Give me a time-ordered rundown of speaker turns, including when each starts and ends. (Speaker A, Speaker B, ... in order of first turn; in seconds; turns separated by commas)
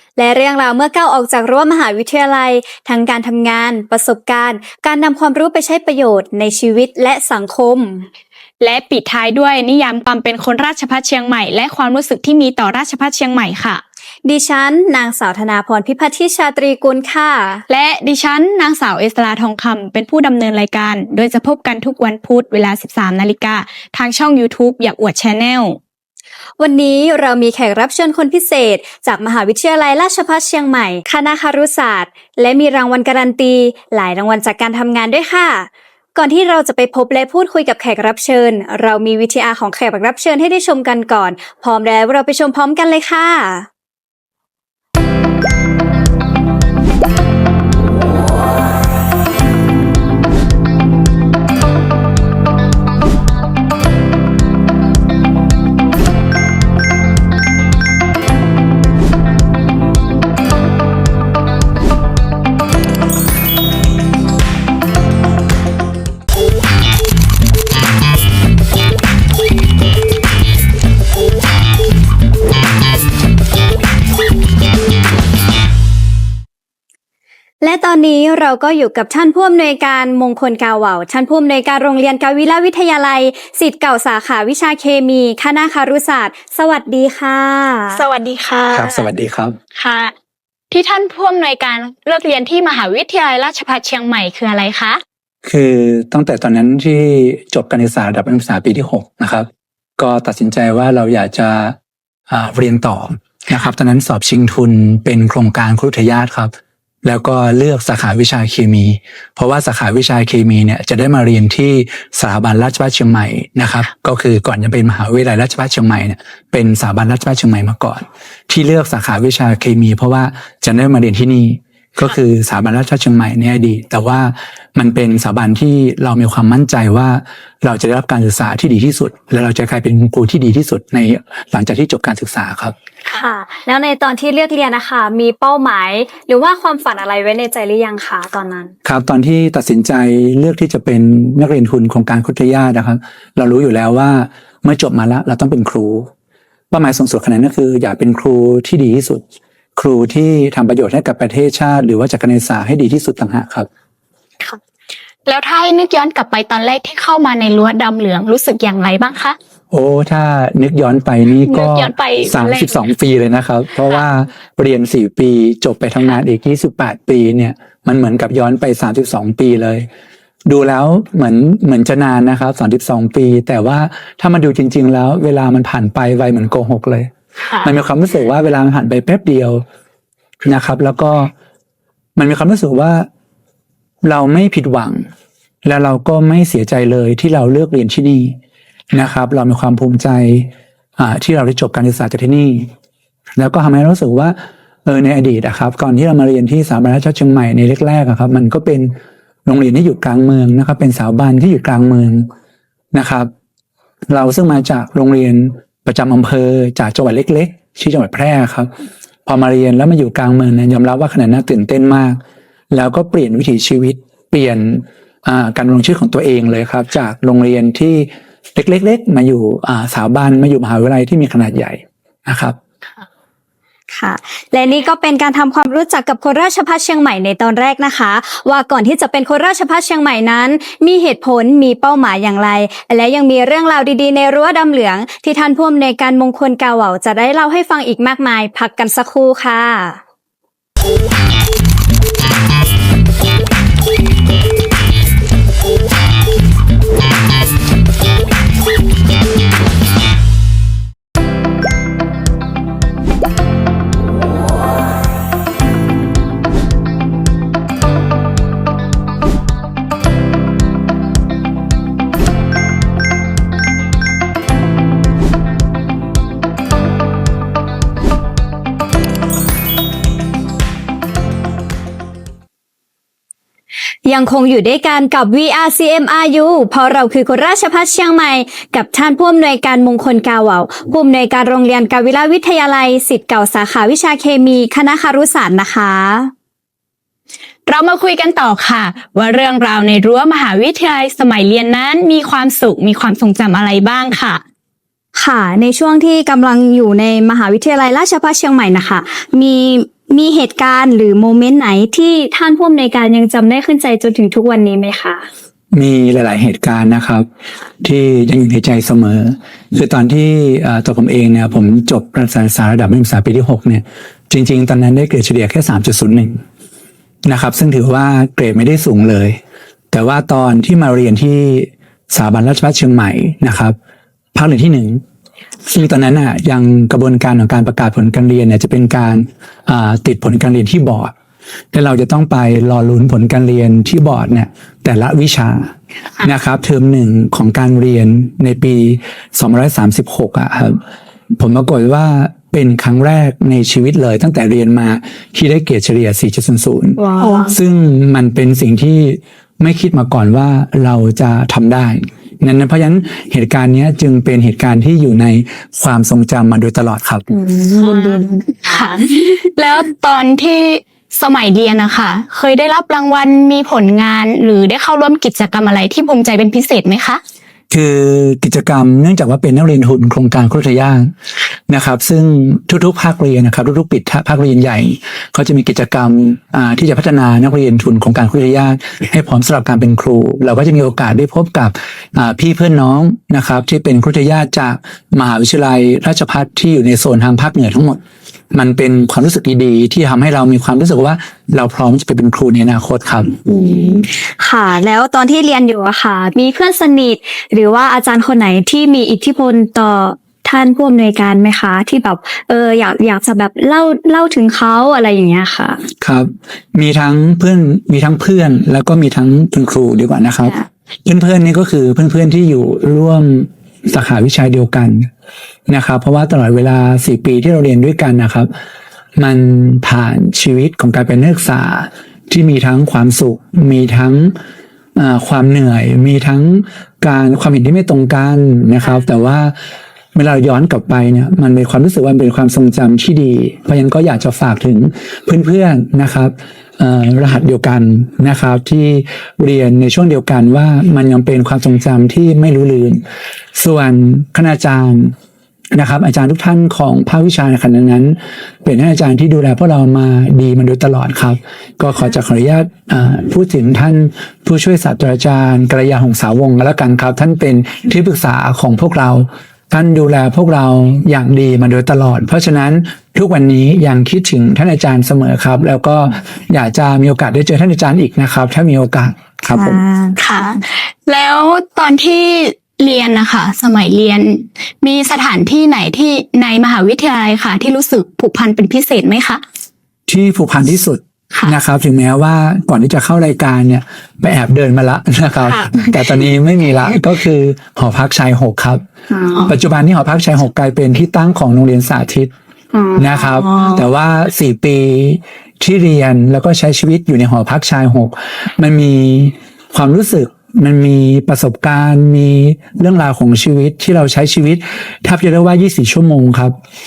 Speaker A: 0.2-8.1, Speaker B: 8.6-13.8, Speaker A: 14.2-17.6, Speaker B: 17.7-25.8, Speaker A: 26.6-43.7, Speaker A: 77.6-88.0, Speaker B: 88.0-89.1, Speaker C: 88.7-89.6, Speaker B: 89.8-90.1, Speaker B: 90.7-95.0, Speaker C: 95.5-101.8, Speaker C: 102.3-106.5, Speaker C: 107.0-132.8, Speaker A: 133.1-138.7, Speaker C: 138.8-146.1, Speaker C: 146.7-149.2, Speaker C: 149.8-153.7, Speaker B: 155.3-159.4, Speaker C: 159.7-169.9, Speaker B: 161.4-162.8, Speaker C: 170.5-179.6, Speaker C: 180.4-181.3, Speaker C: 182.2-183.1, Speaker C: 184.0-185.1, Speaker C: 185.7-188.4, Speaker C: 188.9-192.7, Speaker C: 193.4-198.9, Speaker C: 199.5-202.3, Speaker C: 202.9-203.3, Speaker C: 204.1-208.7, Speaker C: 209.3-212.2, Speaker C: 212.7-222.6, Speaker A: 223.9-240.0, Speaker A: 274.1-286.3, Speaker B: 287.7-294.4, Speaker A: 295.1-305.3, Speaker C: 305.7-307.3, Speaker C: 307.8-316.4, Speaker C: 317.2-319.4, Speaker C: 319.9-323.8, Speaker C: 324.3-325.0, Speaker C: 325.7-331.1, Speaker C: 331.7-340.8, Speaker C: 341.3-357.3, Speaker B: 347.2-347.5, Speaker B: 357.3-367.2, Speaker C: 367.7-371.1, Speaker C: 371.7-388.0, Speaker C: 388.5-393.4, Speaker A: 393.5-405.8, Speaker C: 406.0-415.1, Speaker C: 415.7-418.5, Speaker C: 419.2-424.4, Speaker C: 424.9-429.6, Speaker C: 430.1-443.0, Speaker C: 443.6-445.1, Speaker C: 445.7-469.8, Speaker A: 469.5-470.2, Speaker B: 470.2-479.4, Speaker C: 480.1-488.8, Speaker B: 485.5-485.9, Speaker B: 489.1-489.5, Speaker C: 489.5-492.3, Speaker B: 492.7-493.8, Speaker C: 492.9-506.6